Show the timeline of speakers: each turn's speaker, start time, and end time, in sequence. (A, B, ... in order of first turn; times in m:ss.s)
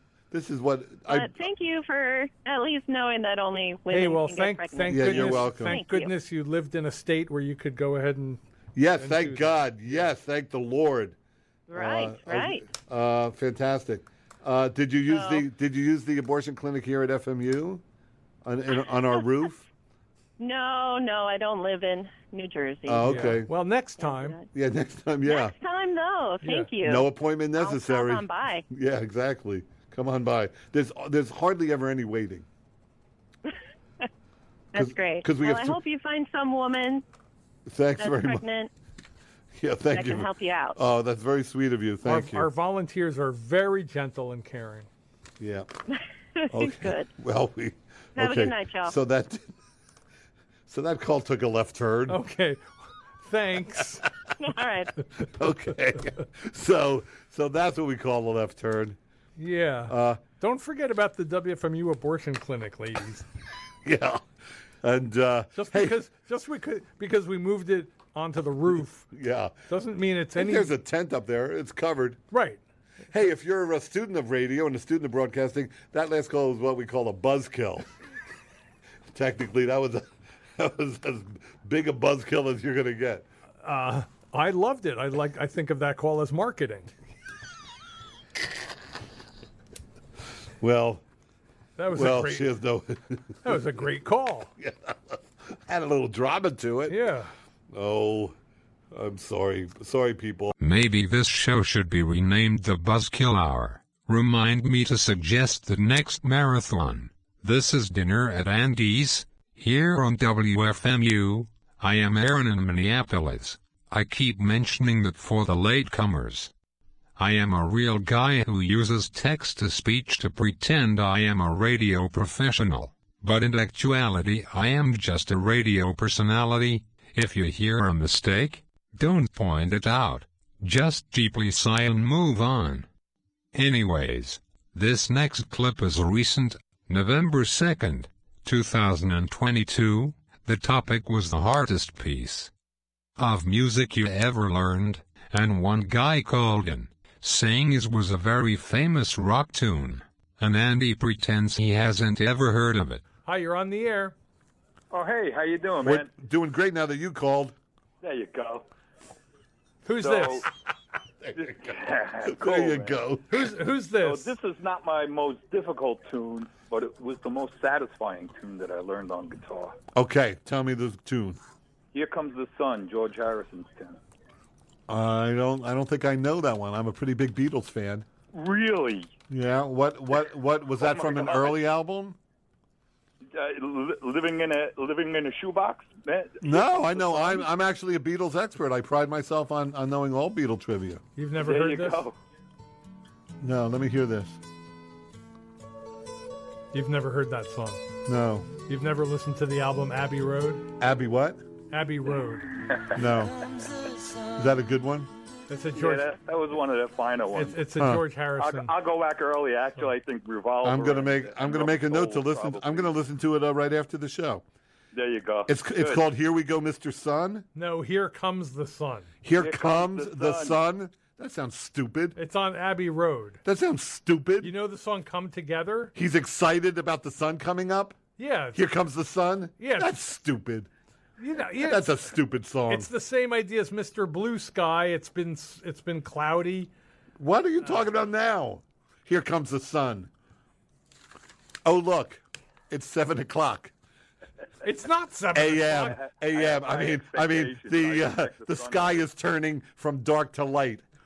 0:00.3-0:01.3 A
0:01.0-0:06.1 B
0:03.9-0:08.4 C
0:04.9-0:05.8 A
0:08.7-0:11.2 A
0:09.0-0:09.6 C
0:11.7-0:12.7 B
0:11.7-0:17.8 A
0:15.1-0:15.5 B
0:18.4-0:19.6 A
0:18.7-0:19.5 B
0:20.4-0:23.4 B
0:22.9-0:23.5 A
0:23.0-0:24.4 C
0:24.0-0:24.5 B
0:24.5-0:25.5 A
0:25.2-0:28.6 B
0:26.4-0:26.7 C
0:26.8-0:32.4 A
0:34.7-0:37.0 B
0:34.7-0:35.8 A
0:37.7-0:38.4 A
0:38.0-0:38.7 B
0:39.5-0:42.5 A
0:39.9-0:40.8 B
0:42.0-0:44.9 C
0:45.4-0:45.7 A
0:46.4-0:47.1 B
0:46.5-0:49.5 A
0:48.2-0:49.0 B
0:50.7-0:52.2 A
0:52.1-0:54.0 C
0:54.4-0:55.0 B
0:55.2-0:59.0 A
0:59.4-1:03.2 C
0:59.9-1:00.2 A
1:03.8-1:04.2 A
1:04.8-1:06.0 A
1:05.5-1:09.1 C
1:09.1-1:09.5 A
1:09.7-1:10.7 C
1:10.3-1:12.2 A
1:12.3-1:12.6 C
1:13.1-1:17.9 A
1:19.1-1:23.2 A
1:23.6-1:26.9 C
1:30.6-1:31.0 A
1:31.8-1:32.5 C
1:31.9-1:33.8 A
1:33.4-1:34.5 C
1:34.6-1:37.0 A
1:36.9-1:37.3 C
1:37.7-1:38.3 A
1:38.9-1:40.5 A
1:40.6-1:56.5 D
1:57.2-2:12.9 D
2:13.5-2:22.5 D
2:23.2-2:33.0 D
2:33.2-2:34.1 C
2:34.9-2:36.1 E
2:35.8-2:37.5 A
2:38.0-2:38.6 E
2:39.8-2:40.4 C
2:40.0-2:40.4 E
2:41.2-2:43.5 A
2:41.4-2:43.0 E
2:43.3-2:44.3 C
2:44.0-2:49.8 E
2:49.9-2:51.4 A
2:51.9-2:54.0 E
2:54.9-2:58.0 A
2:58.3-2:59.1 E
2:59.3-3:02.2 A
3:00.8-3:01.6 E
3:03.3-3:07.4 E
3:06.4-3:11.0 A
3:11.2-3:12.0 C
3:11.4-3:12.2 E
3:13.4-3:14.4 A
3:16.7-3:17.8 C
3:18.0-3:18.5 A
3:18.7-3:20.7 C
3:20.8-3:21.4 A
3:21.7-3:22.5 C
3:22.7-3:23.0 E
3:22.9-3:23.4 A
3:24.3-3:25.1 A
3:25.5-3:26.1 C
3:25.7-3:27.7 E
3:27.3-3:28.7 C
3:27.8-3:28.0 A
3:28.4-3:32.9 E
3:30.6-3:34.4 A
3:34.9-3:36.0 E
3:35.5-3:37.4 A
3:37.5-3:39.1 C
3:39.2-3:42.2 A
3:39.3-3:40.6 E
3:42.2-3:43.4 C
3:43.4-3:44.5 A
3:44.4-3:45.9 C
3:45.9-3:48.0 A
3:48.2-3:48.6 C
3:48.5-3:50.7 A
3:49.6-3:50.0 C
3:51.2-3:52.1 C
3:51.6-3:52.9 A
3:52.7-3:56.7 C
3:57.2-4:00.1 A
4:01.6-4:03.7 A
4:04.6-4:06.0 C
4:05.3-4:10.8 A
4:05.9-4:09.0 E